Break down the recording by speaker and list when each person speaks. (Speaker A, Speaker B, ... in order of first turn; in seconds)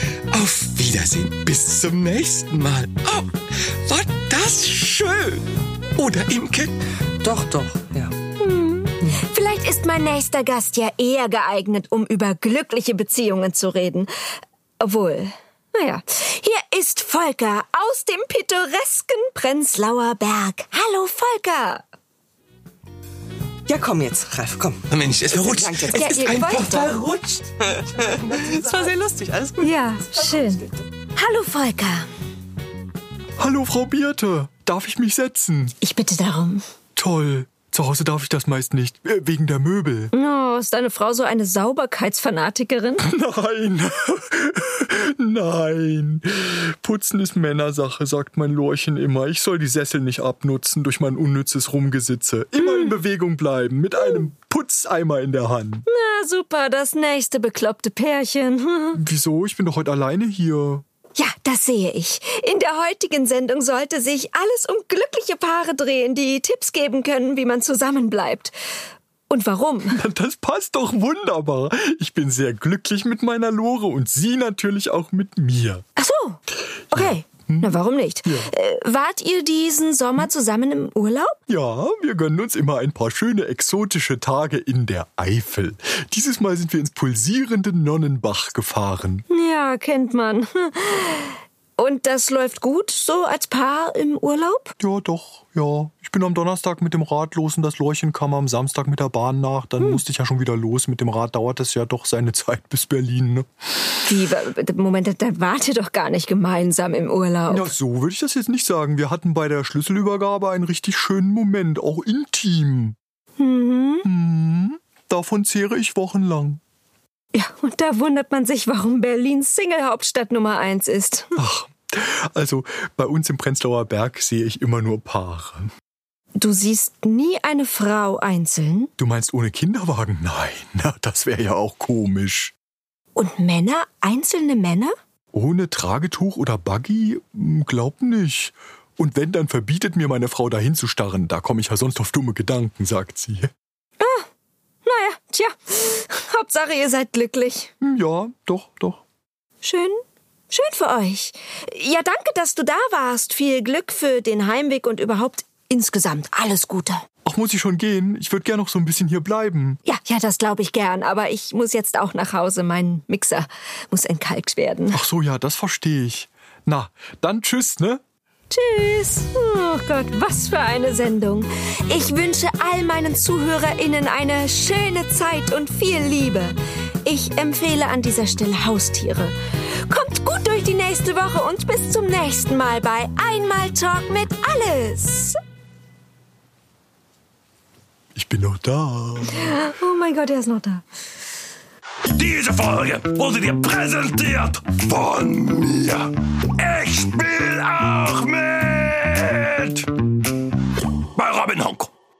Speaker A: 0.3-6.7, 24.9-27.5
Speaker B: 7.2-8.1, 23.7-27.0, 27.7-30.4
Speaker C: 8.4-14.1, 14.8-21.8, 25.9-26.9, 29.6-30.6, 31.1-32.1, 35.8-36.6, 40.1-43.0, 52.6-52.9, 55.9-59.0, 61.1-68.5, 69.3-70.0, 76.0-76.4, 76.9-81.3, 89.3-94.7, 104.0-107.7, 113.4-114.1, 117.3-121.3, 126.3-128.9, 133.2-134.9, 144.0-144.2, 144.8-147.7, 149.6-150.0, 150.5-157.0, 159.8-165.0, 168.5-179.3, 179.9-185.4, 189.4-190.8
Speaker D: 33.4-35.7, 37.0-40.1, 43.0-55.9, 59.0-60.8, 69.9-75.8, 76.9-78.5, 81.5-89.2, 94.8-103.5, 107.5-113.0, 114.0-116.6, 121.4-125.7, 129.0-132.5, 135.3-143.5, 147.8-149.0, 157.2-159.8, 164.9-168.0, 188.1-189.6
Speaker E: 192.1-199.8, 201.1-201.9